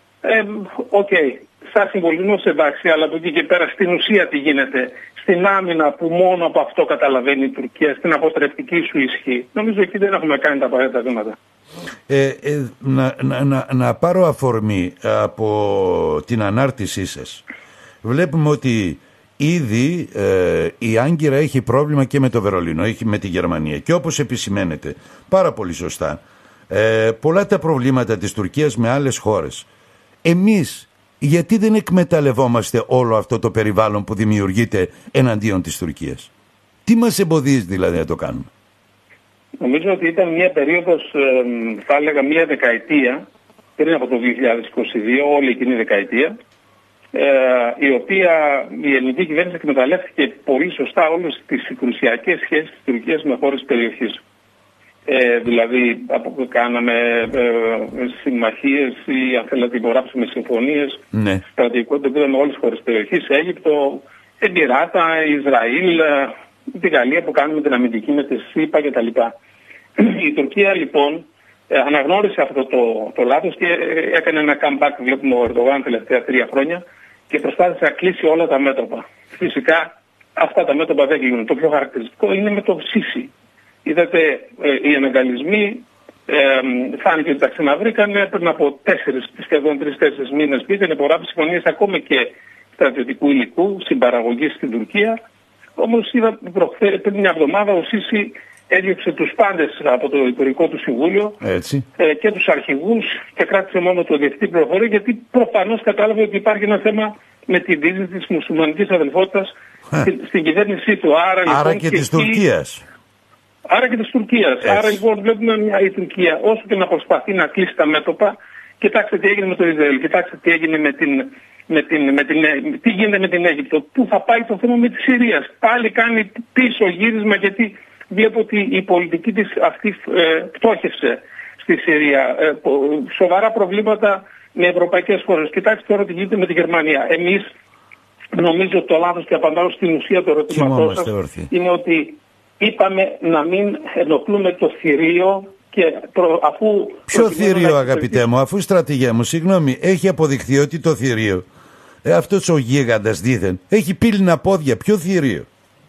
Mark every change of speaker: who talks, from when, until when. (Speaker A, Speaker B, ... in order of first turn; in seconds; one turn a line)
Speaker A: 0.2-11.4
Speaker B: 12.1-17.4
Speaker B: 18.0-29.7
Speaker B: 30.2-36.3
Speaker B: 36.8-38.5
Speaker A: 39.6-43.2
Speaker A: 43.8-46.3
Speaker A: 47.1-54.2
Speaker A: 55.0-69.3
Speaker B: 61.1-61.4
Speaker A: 70.0-83.3
Speaker A: 83.8-95.2
Speaker A: 95.8-101.4
Speaker B: 101.4-101.8
Speaker A: 102.0-112.4
Speaker B: 111.5-112.8
Speaker A: 113.7-137.5
Speaker B: 114.6-115.0
Speaker A: 138.3-148.2
Speaker B: 140.5-141.5
Speaker B: 147.1-151.4
Speaker B: 152.0-155.5